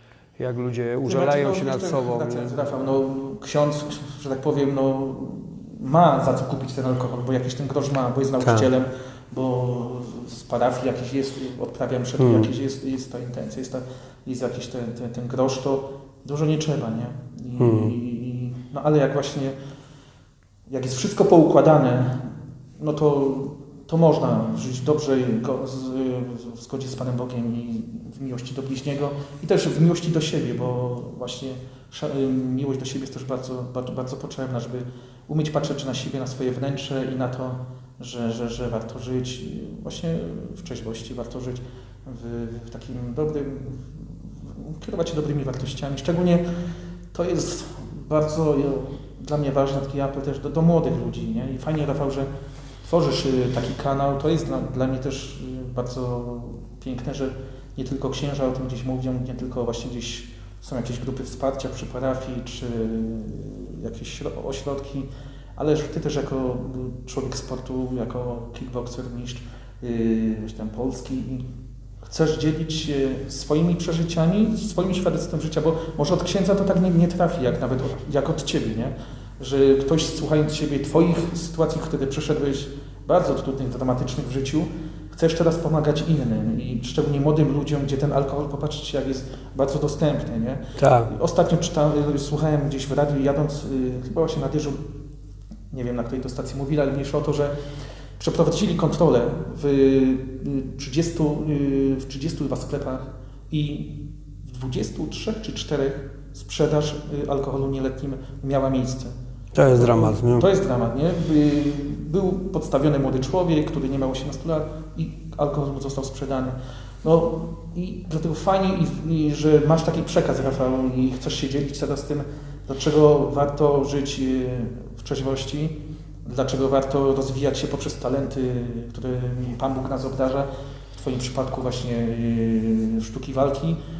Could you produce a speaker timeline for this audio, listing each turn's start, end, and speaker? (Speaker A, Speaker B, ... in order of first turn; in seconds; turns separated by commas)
Speaker A: 0.4-2.6, Speaker B: 1.0-19.6, Speaker A: 8.4-8.7, Speaker A: 12.2-12.5, Speaker A: 17.6-17.9, Speaker B: 20.7-46.4, Speaker B: 47.1-52.3, Speaker B: 52.8-71.5, Speaker B: 72.0-94.8, Speaker A: 90.8-91.1, Speaker B: 95.7-97.5, Speaker B: 98.2-109.1, Speaker A: 109.5-110.5, Speaker B: 109.7-133.8